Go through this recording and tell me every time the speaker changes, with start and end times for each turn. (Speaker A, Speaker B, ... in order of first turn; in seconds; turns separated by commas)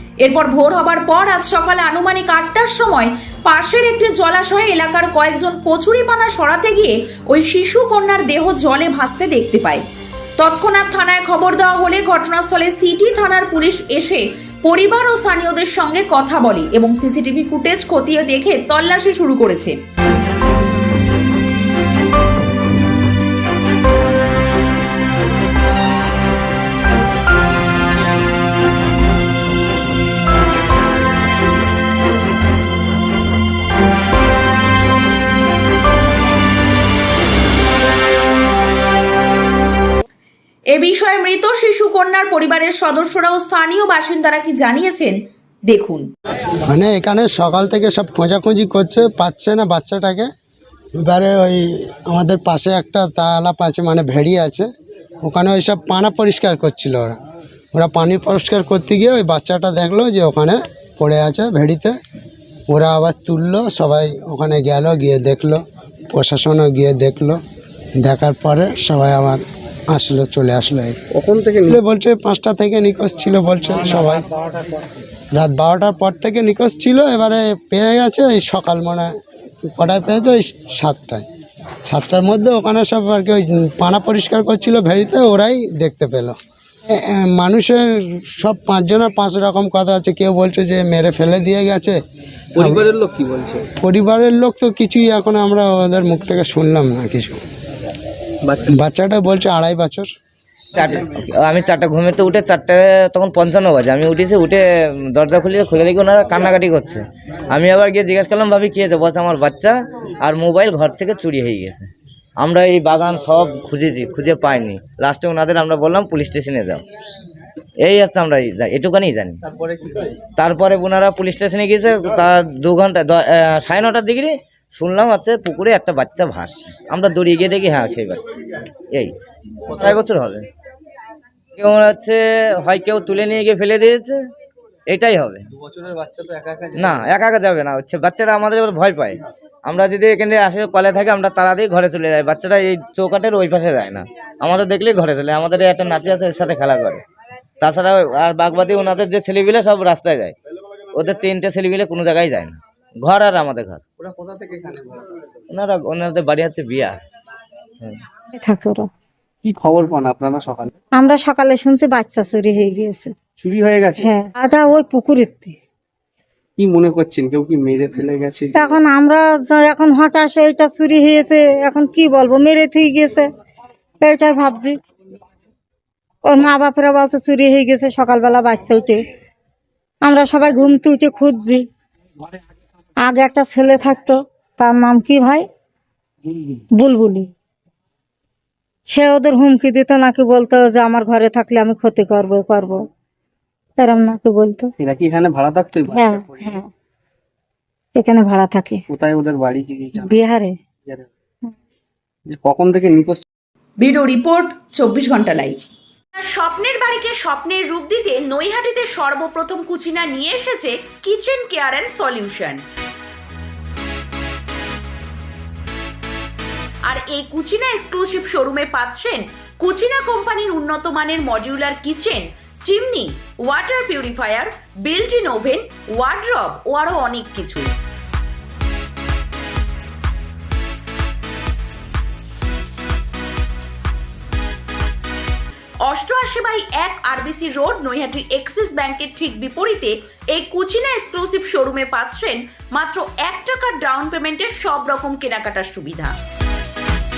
Speaker A: 0.2-9.8, Speaker A: 10.4-19.8, Speaker A: 40.7-46.1, Speaker B: 46.7-50.3, Speaker B: 51.0-54.7, Speaker B: 55.2-57.2, Speaker B: 57.7-62.0, Speaker B: 62.7-65.6, Speaker B: 66.1-67.4, Speaker B: 68.0-71.0, Speaker C: 71.1-71.8, Speaker B: 71.7-74.3, Speaker B: 75.3-79.1, Speaker B: 79.7-81.2, Speaker B: 81.9-86.4, Speaker B: 86.9-92.0, Speaker B: 92.6-92.8, Speaker C: 92.6-93.7, Speaker B: 93.8-97.4, Speaker B: 98.7-100.1, Speaker D: 100.7-116.8, Speaker D: 117.8-119.4, Speaker D: 120.4-129.1, Speaker D: 129.7-130.5, Speaker D: 131.6-134.2, Speaker D: 134.9-135.4, Speaker D: 136.7-147.0, Speaker D: 147.6-150.3, Speaker D: 150.9-153.8, Speaker C: 154.0-155.1, Speaker D: 155.5-157.0, Speaker E: 158.4-158.9, Speaker C: 159.4-160.7, Speaker E: 161.0-163.1, Speaker C: 163.4-164.1, Speaker E: 164.0-165.6, Speaker C: 166.6-168.7, Speaker E: 168.6-173.3, Speaker E: 174.0-174.8, Speaker E: 176.2-179.0, Speaker E: 180.1-181.7, Speaker E: 183.0-185.5, Speaker E: 186.8-187.3, Speaker E: 188.9-192.8, Speaker E: 193.8-194.7, Speaker C: 194.8-196.6, Speaker E: 195.9-196.6, Speaker E: 197.9-198.8, Speaker C: 198.9-200.2, Speaker E: 200.0-200.5, Speaker C: 202.3-203.3, Speaker A: 203.8-205.6, Speaker A: 206.2-212.6, Speaker A: 216.9-227.8, Speaker A: 235.8-246.2